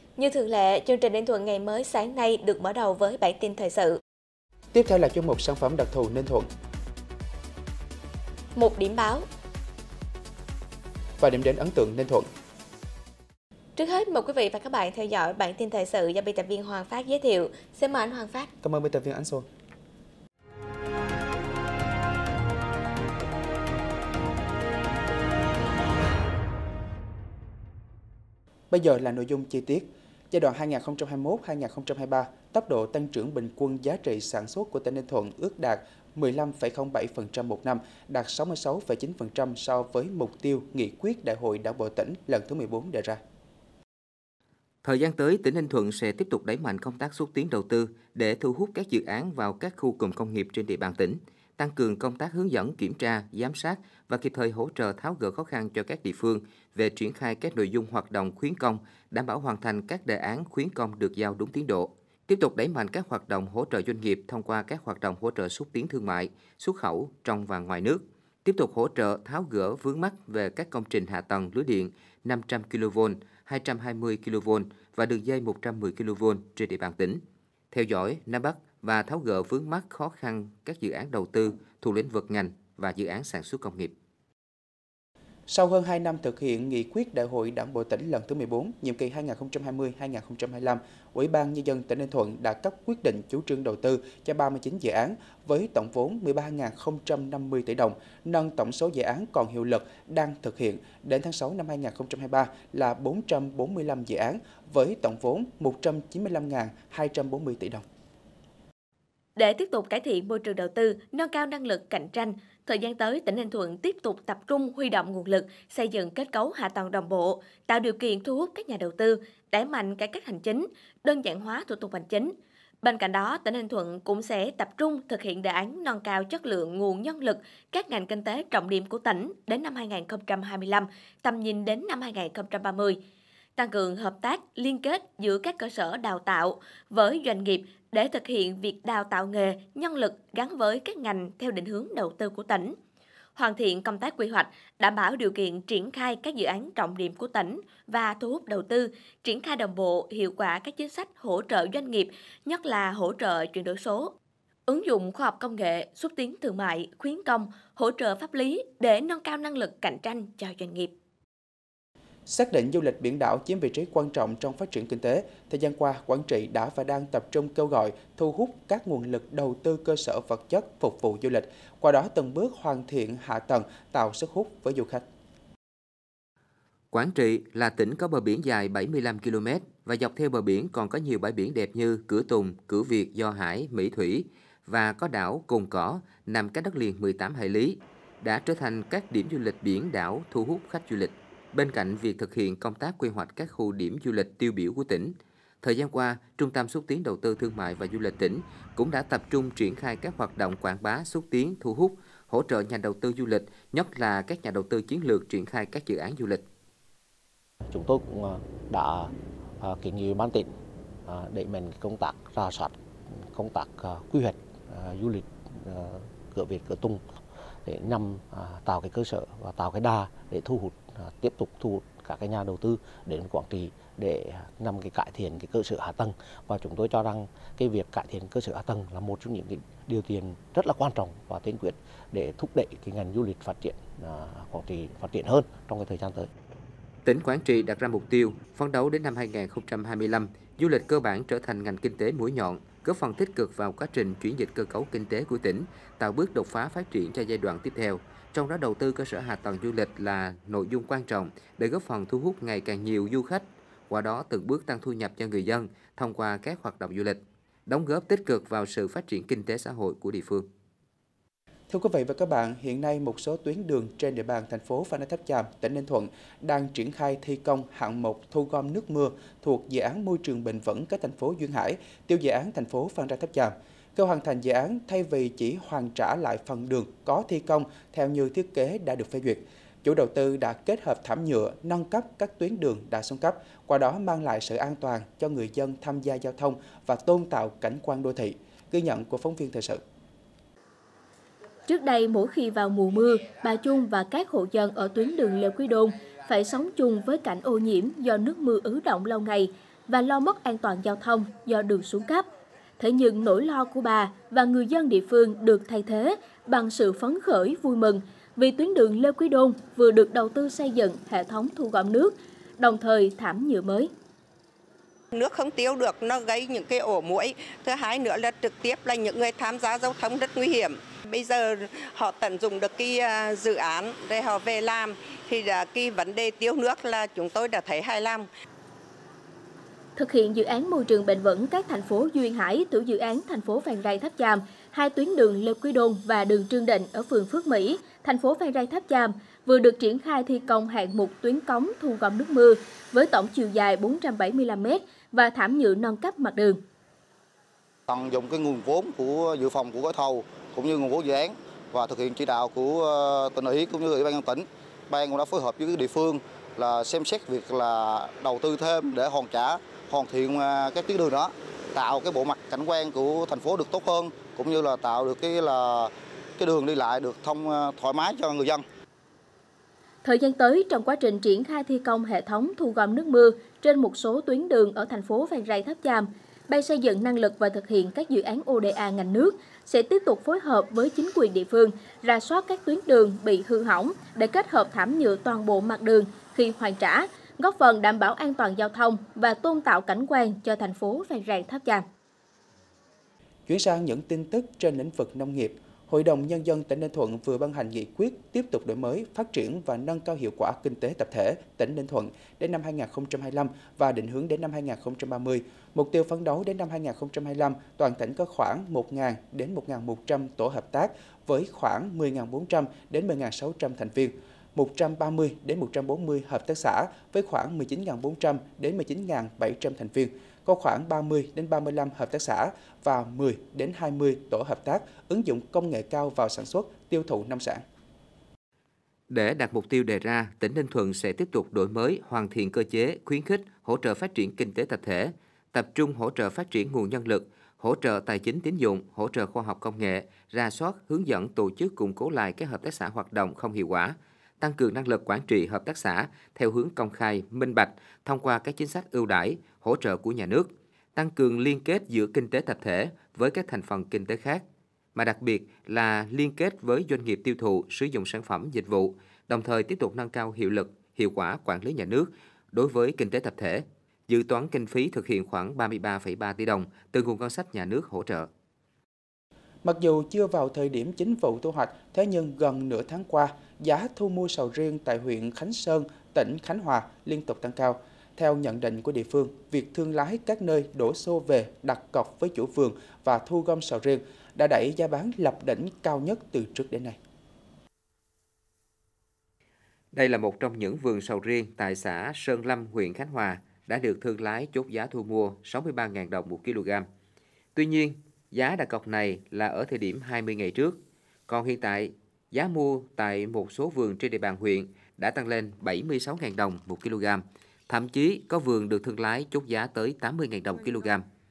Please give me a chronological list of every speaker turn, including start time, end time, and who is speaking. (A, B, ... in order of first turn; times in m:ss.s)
0:00.2-0:04.0 A
0:04.7-0:06.5 B
0:08.5-0:09.2 A
0:11.2-0:12.3 B
0:13.8-0:18.5 A
0:18.6-0:19.5 B
0:28.7-0:43.2 B
0:44.8-1:23.9 C
1:25.5-1:47.8 B
1:49.4-2:13.0 A
2:13.6-2:22.8 A
2:23.4-2:34.1 A
2:34.7-2:40.9 A
2:42.3-2:55.0 B
2:56.9-3:26.4 C
3:27.7-3:30.5 D
3:31.0-3:37.0 D
3:37.6-3:56.3 D
3:57.0-4:20.5 C
4:21.7-4:49.8 B
4:51.6-5:02.3 E
5:02.8-5:13.9 E
5:15.1-5:28.3 F
5:30.0-5:46.6 E
5:47.9-6:08.6 G
6:10.0-6:31.8 E
6:33.5-7:07.6 B
7:09.1-7:34.4 C
7:34.9-7:48.3 C
7:49.6-8:07.0 B
8:09.9-8:16.9 C
8:17.5-8:31.0 C